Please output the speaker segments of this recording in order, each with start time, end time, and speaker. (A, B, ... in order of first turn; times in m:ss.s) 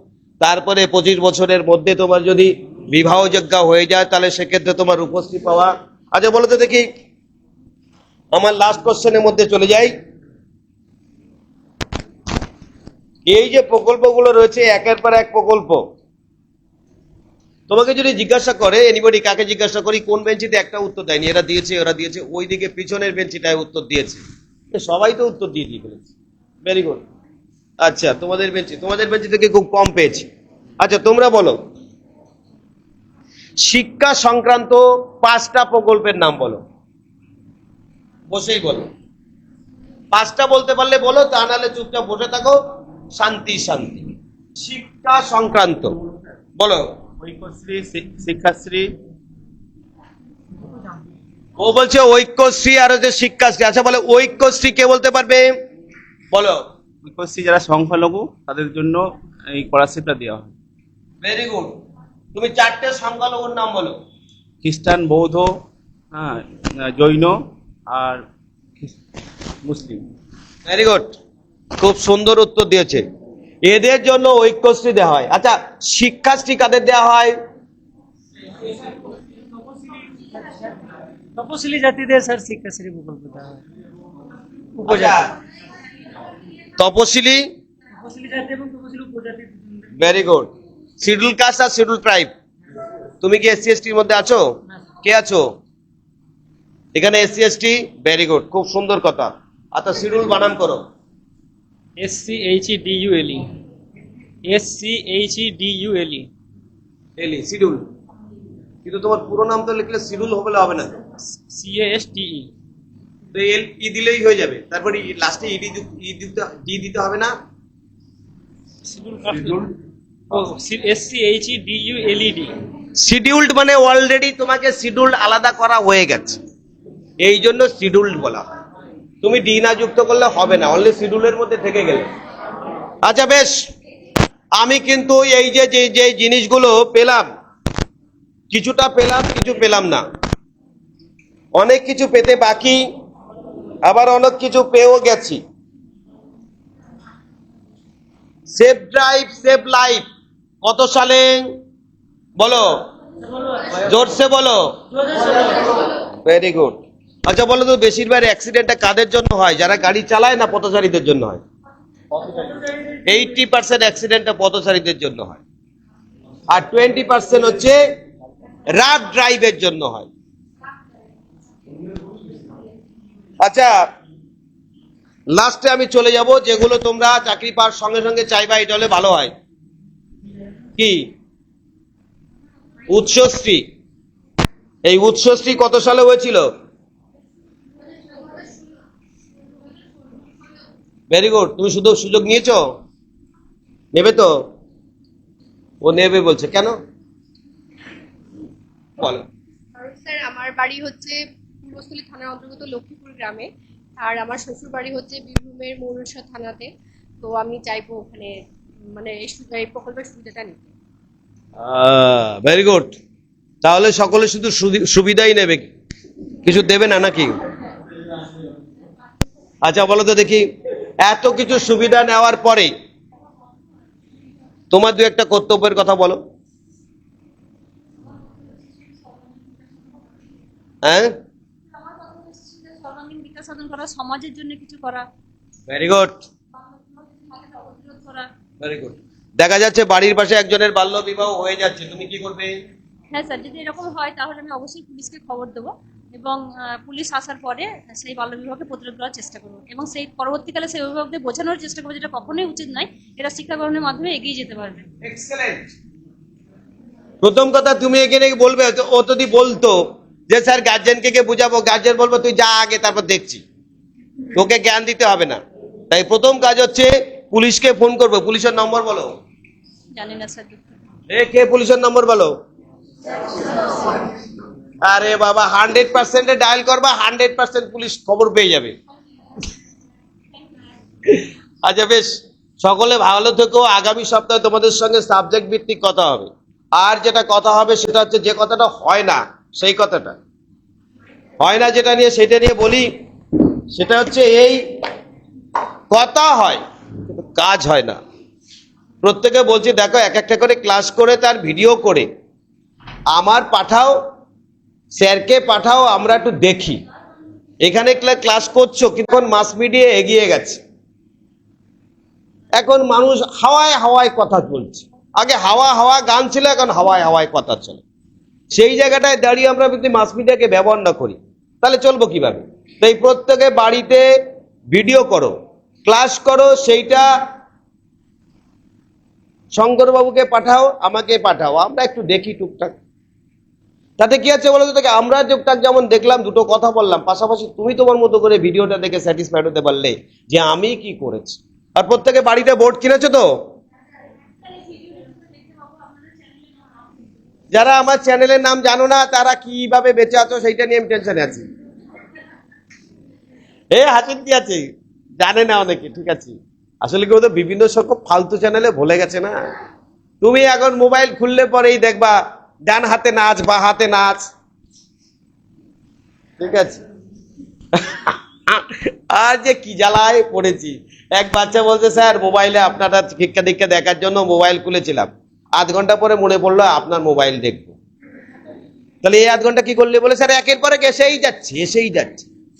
0:00.4-0:06.9 A
0:08.3-0:09.9 A
0:13.3-0:15.8 A
0:17.7-0:24.2 A
0:24.7-0:26.1 A
0:26.6-0:27.0 A
0:27.8-0:30.3 A
0:30.8-0:31.6 A
0:33.6-0:36.6 A
0:38.3-0:38.9 A
0:40.1-0:42.6 A
0:43.1-0:44.1 A
0:44.6-0:45.9 A
0:46.6-0:46.8 A
0:47.2-0:48.9 B
0:51.6-0:55.5 A
0:56.3-0:56.6 A
0:57.0-1:00.5 B
1:01.2-1:01.8 A
1:02.3-1:04.0 A
1:04.6-1:05.5 B
1:06.1-1:07.4 B
1:07.9-1:08.2 B
1:09.6-1:10.0 B
1:10.6-1:11.2 A
1:11.8-1:13.0 A
1:13.6-1:17.4 A
1:21.4-1:23.6 C
1:24.8-1:25.3 C
1:24.8-1:25.3 A
1:26.8-1:27.5 A
1:28.0-1:29.8 C
1:30.0-1:32.3 A
1:33.2-1:34.4 A
1:35.0-1:35.5 A
1:36.9-1:40.8 A
1:42.0-1:43.5 C
1:44.4-1:46.3 C
1:47.2-1:47.8 A
1:48.8-1:51.0 A
1:51.2-1:52.5 C
1:53.3-1:57.3 A
1:58.8-1:59.7 C
2:00.3-2:02.5 C
2:03.0-2:06.4 A
2:07.2-2:08.4 A
2:09.2-2:12.1 A
2:13.0-2:13.7 A
2:14.6-2:17.3 A
2:18.5-2:20.0 A
2:21.6-2:22.8 A
2:23.8-2:25.4 A
2:28.5-2:30.0 A
2:30.6-2:31.5 A
2:32.4-2:32.7 A
2:33.7-2:41.4 A
2:43.1-2:45.4 A
2:46.5-2:47.8 A
2:48.7-2:50.1 A
2:53.4-2:53.8 A
2:55.3-2:59.3 A
3:00.8-3:01.1 A
3:02.9-3:03.6 A
3:04.8-3:06.5 A
3:11.1-3:12.6 A
3:13.9-3:14.3 A
3:15.8-3:16.8 A
3:19.0-3:19.2 A
3:19.8-3:26.7 D
3:27.2-3:28.4 D
3:29.0-3:30.6 D
3:31.6-3:33.0 A
3:33.6-3:35.7 A
3:36.4-3:37.4 A
3:39.6-3:40.5 A
3:41.0-3:42.7 A
3:44.7-3:46.2 A
3:50.8-3:51.2 A
3:52.0-3:55.1 E
3:55.7-3:56.2 A
3:57.2-3:58.3 E
3:58.6-4:02.6 A
4:03.1-4:14.8 E
4:15.0-4:15.7 A
4:17.2-4:23.4 A
4:24.3-4:29.1 A
4:29.9-4:30.8 E
4:31.1-4:32.3 A
4:34.8-4:38.7 A
4:41.1-4:50.2 A
4:51.4-4:52.9 A
4:53.7-4:54.6 A
4:55.9-4:56.6 A
4:57.2-4:58.0 A
4:59.0-5:02.1 A
5:03.1-5:04.0 A
5:04.9-5:06.8 A
5:07.6-5:10.6 A
5:12.6-5:17.8 A
5:18.5-5:24.0 A
5:24.7-5:25.3 A
5:25.8-5:27.1 A
5:29.5-5:32.7 A
5:34.0-5:43.3 A
5:44.5-5:46.3 E
5:47.5-5:51.5 A
5:53.7-5:54.6 A
5:55.2-5:59.5 A
6:00.2-6:04.3 A
6:06.4-6:06.8 A
6:07.7-6:17.7 A
6:19.0-6:22.2 A